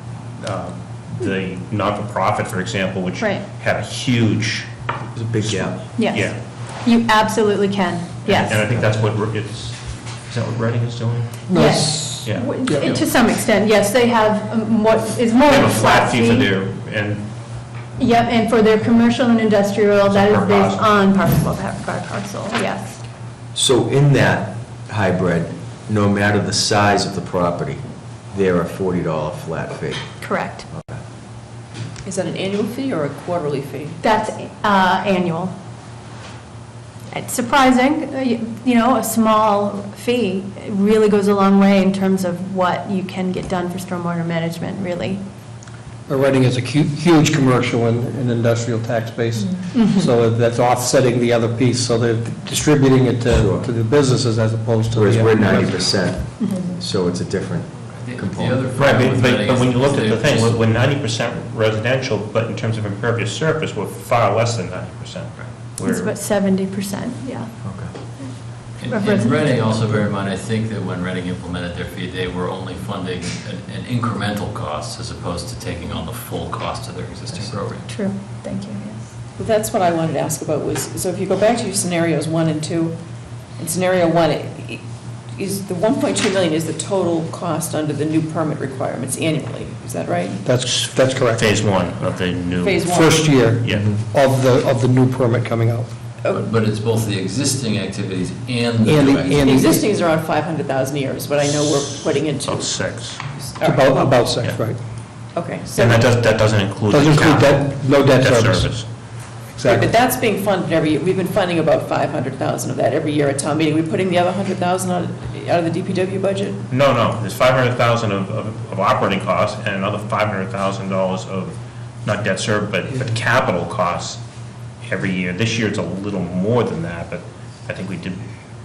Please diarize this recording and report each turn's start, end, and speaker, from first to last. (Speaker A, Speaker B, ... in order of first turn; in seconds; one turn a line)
Speaker A: 0.4-4.7
Speaker B: 3.2-3.4
Speaker C: 5.2-5.9
Speaker A: 5.4-6.4
Speaker B: 6.0-8.8
Speaker A: 8.2-11.4
Speaker D: 11.5-13.0
Speaker B: 11.5-16.5
Speaker A: 12.2-12.5
Speaker A: 15.5-17.2
Speaker B: 18.0-23.0
Speaker A: 20.1-21.0
Speaker C: 23.5-30.2
Speaker B: 30.2-30.7
Speaker C: 30.7-31.0
Speaker E: 32.0-34.2
Speaker B: 34.0-35.5
Speaker B: 37.1-45.2
Speaker D: 46.1-56.5
Speaker B: 49.7-50.1
Speaker C: 53.3-53.7
Speaker C: 54.9-58.9
Speaker B: 56.4-56.8
Speaker F: 58.0-60.6
Speaker A: 58.8-66.1
Speaker B: 65.8-69.5
Speaker C: 67.6-68.0
Speaker F: 68.8-77.9
Speaker C: 77.3-77.7
Speaker B: 77.9-79.1
Speaker E: 79.4-83.0
Speaker E: 83.6-84.8
Speaker E: 85.3-90.4
Speaker D: 90.5-91.5
Speaker A: 90.7-93.0
Speaker E: 92.6-93.4
Speaker D: 92.8-95.9
Speaker A: 93.6-93.9
Speaker F: 96.5-99.5
Speaker D: 98.8-99.8
Speaker E: 99.3-104.1
Speaker A: 102.5-103.2
Speaker D: 103.6-104.8
Speaker E: 105.3-106.1
Speaker A: 105.8-108.9
Speaker D: 106.9-108.9
Speaker D: 109.5-109.9
Speaker E: 109.7-116.7
Speaker A: 116.7-124.2
Speaker A: 124.8-128.3